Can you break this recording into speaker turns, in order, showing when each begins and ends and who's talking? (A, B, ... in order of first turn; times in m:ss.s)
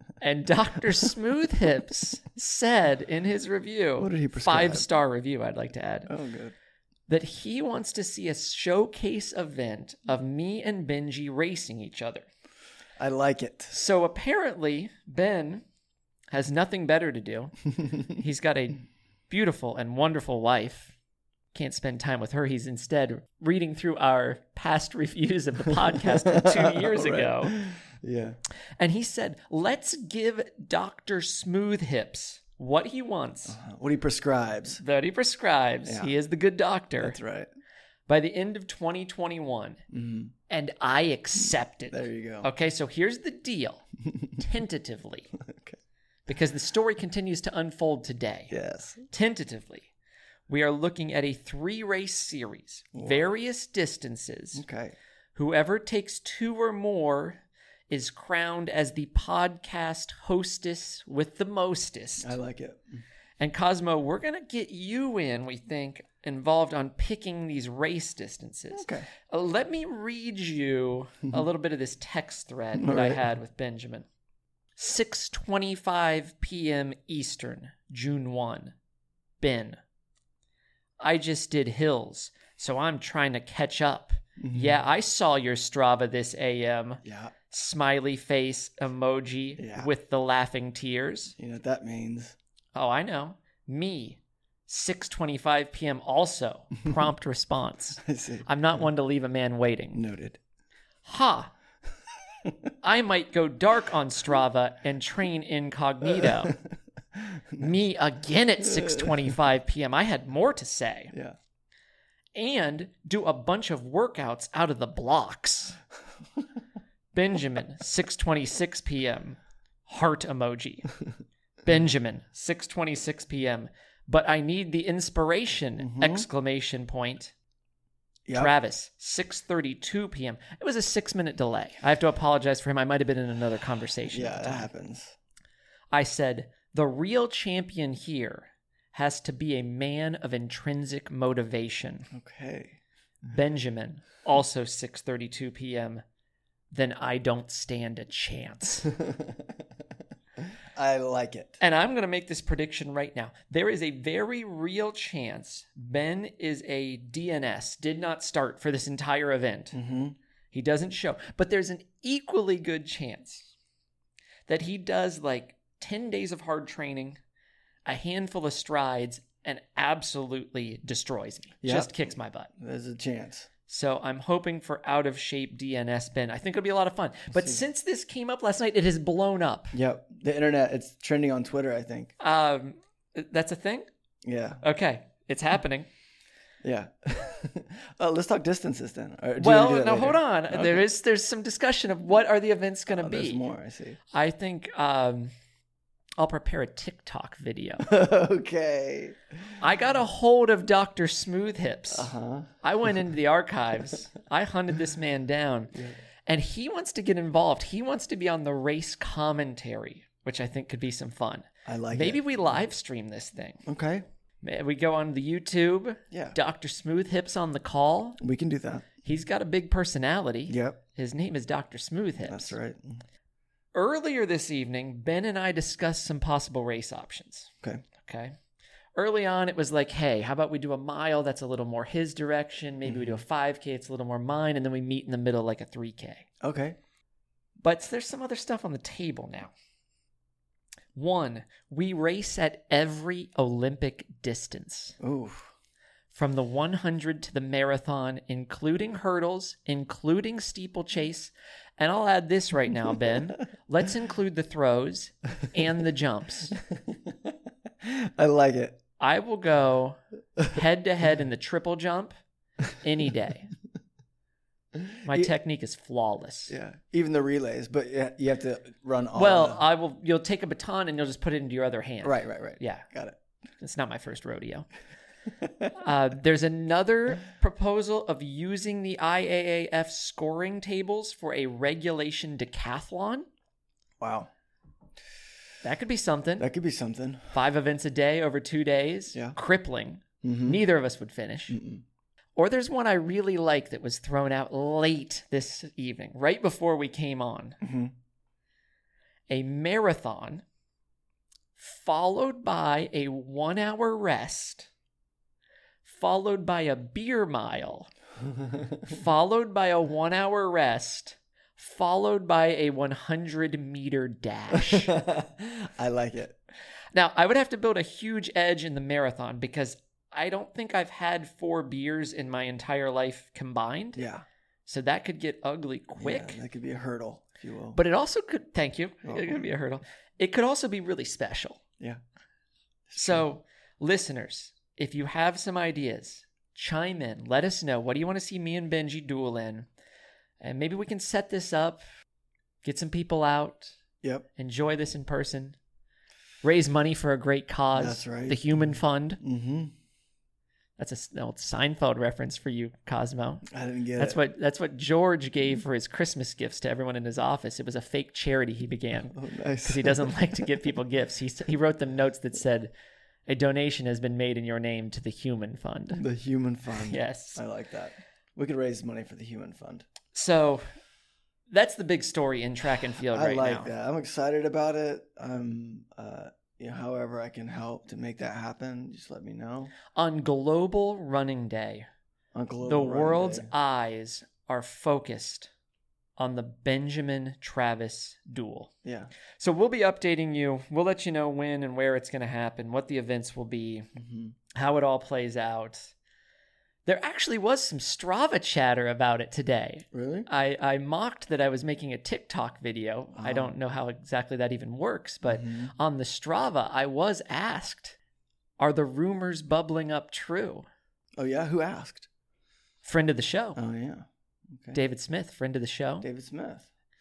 0:00.2-0:06.1 A
0:04.0-0:04.9 B
0:06.1-0:06.5 B
0:07.1-0:12.3 A
0:13.0-0:13.7 B
0:13.7-0:15.6 A
0:16.3-0:21.0 A
0:21.5-0:27.6 A
0:26.1-0:28.4 B
0:28.8-0:33.6 A
0:33.5-0:34.8 B
0:34.8-0:37.2 A
0:35.8-0:36.1 B
0:37.0-0:37.5 B
0:38.1-0:39.8 A
0:39.9-0:40.3 B
0:40.5-0:43.8 A
0:41.9-0:42.5 B
0:44.4-0:45.3 A
0:45.4-0:45.8 B
0:46.3-0:48.5 A
0:48.5-0:49.0 B
0:49.1-0:49.9 A
0:50.5-0:54.6 A
0:52.9-0:53.2 B
0:54.5-0:55.0 B
0:55.4-1:02.3 A
1:02.2-1:03.0 B
1:03.4-1:14.1 A
1:08.7-1:09.1 B
1:12.8-1:13.2 B
1:14.8-1:18.7 A
1:19.4-1:19.8 A
1:21.0-1:31.4 A
1:24.4-1:24.8 B
1:27.0-1:27.3 B
1:29.6-1:29.9 B
1:31.4-1:32.4 B
1:32.7-1:40.0 A
1:38.0-1:38.5 B
1:39.9-1:40.4 B
1:41.0-1:41.5 A
1:42.8-1:46.6 A
1:46.2-1:47.7 B
1:47.6-1:51.1 A
1:48.6-1:49.2 B
1:52.4-1:55.8 A
1:57.1-2:00.9 A
2:01.6-2:07.3 A
2:05.8-2:06.3 B
2:08.3-2:08.5 B
2:08.3-2:14.7 A
2:14.1-2:15.2 B
2:15.9-2:22.1 A
2:22.1-2:22.8 B
2:23.3-2:26.0 A
2:26.7-2:29.0 A
2:29.1-2:29.5 B
2:30.8-2:31.6 B
2:31.6-2:39.8 A
2:39.7-2:40.2 B
2:40.5-2:43.5 A
2:44.5-2:47.2 A
2:47.9-2:52.5 A
2:51.6-2:51.9 B
2:52.6-2:53.5 B
2:53.7-2:59.8 A
2:59.7-3:02.1 B
3:02.2-3:03.9 A
3:04.2-3:04.6 B
3:04.6-3:05.9 A
3:06.6-3:10.8 B
3:09.4-3:13.4 A
3:12.9-3:14.0 B
3:14.1-3:15.3 A
3:16.2-3:17.9 A
3:17.8-3:19.5 B
3:19.6-3:33.6 A
3:21.9-3:22.5 B
3:31.7-3:32.2 B
3:33.7-3:34.0 B
3:34.4-3:38.2 A
3:38.2-3:38.9 B
3:39.0-3:42.6 A
3:40.5-3:40.8 B
3:42.2-3:43.0 B
3:43.7-3:48.4 A
3:49.0-3:56.3 A
3:52.8-3:53.2 B
3:56.4-3:56.8 B
3:57.6-3:59.5 A
4:01.0-4:05.0 A
4:05.0-4:05.5 B
4:06.1-4:16.6 A
4:16.7-4:18.8 B
4:19.0-4:22.1 A
4:22.7-4:23.5 A
4:24.8-4:25.3 B
4:25.0-4:26.6 A
4:26.5-4:29.6 B
4:29.2-4:32.8 A
4:32.0-4:33.2 B
4:33.6-4:34.7 A
4:35.4-4:35.7 B
4:35.8-4:43.3 A
4:44.0-4:44.3 B
4:45.6-4:46.5 A
4:46.4-4:47.3 B
4:47.3-4:51.6 A
4:50.2-4:50.6 B
4:51.5-4:51.8 B
4:52.4-4:57.6 A
4:57.6-4:57.9 B
4:59.3-5:00.4 A
5:01.6-5:04.7 A
5:05.8-5:07.9 A
5:08.8-5:15.0 A
5:14.5-5:16.4 B
5:16.9-5:24.0 A
5:24.0-5:24.2 B
5:24.7-5:26.4 A
5:26.0-5:27.8 B
5:27.7-5:31.6 A
5:29.0-5:29.5 B
5:32.9-5:33.2 B
5:33.0-5:39.7 A
5:40.4-5:41.8 A
5:42.6-5:43.8 A
5:44.4-5:45.6 A
5:46.4-5:49.2 A
5:47.8-5:49.7 B
5:50.8-6:02.7 A
5:53.5-5:54.2 B
5:59.1-6:00.4 B
6:03.3-6:06.0 A
6:06.0-6:09.9 B
6:06.8-6:07.4 A
6:10.1-6:10.7 A
6:11.5-6:13.7 A
6:13.1-6:19.7 B
6:20.0-6:21.9 A
6:22.3-6:23.5 B
6:22.6-6:25.5 A
6:26.2-6:28.7 A
6:29.4-6:33.9 A
6:34.0-6:34.3 B
6:34.5-6:35.9 A
6:36.8-6:48.0 A
6:39.9-6:40.3 B
6:43.2-6:43.5 B
6:45.2-6:45.7 B
6:48.6-6:50.7 A
6:51.2-6:52.1 B
6:52.8-6:53.6 A
6:53.6-6:54.8 B
6:54.7-6:56.1 A
6:56.0-6:56.7 B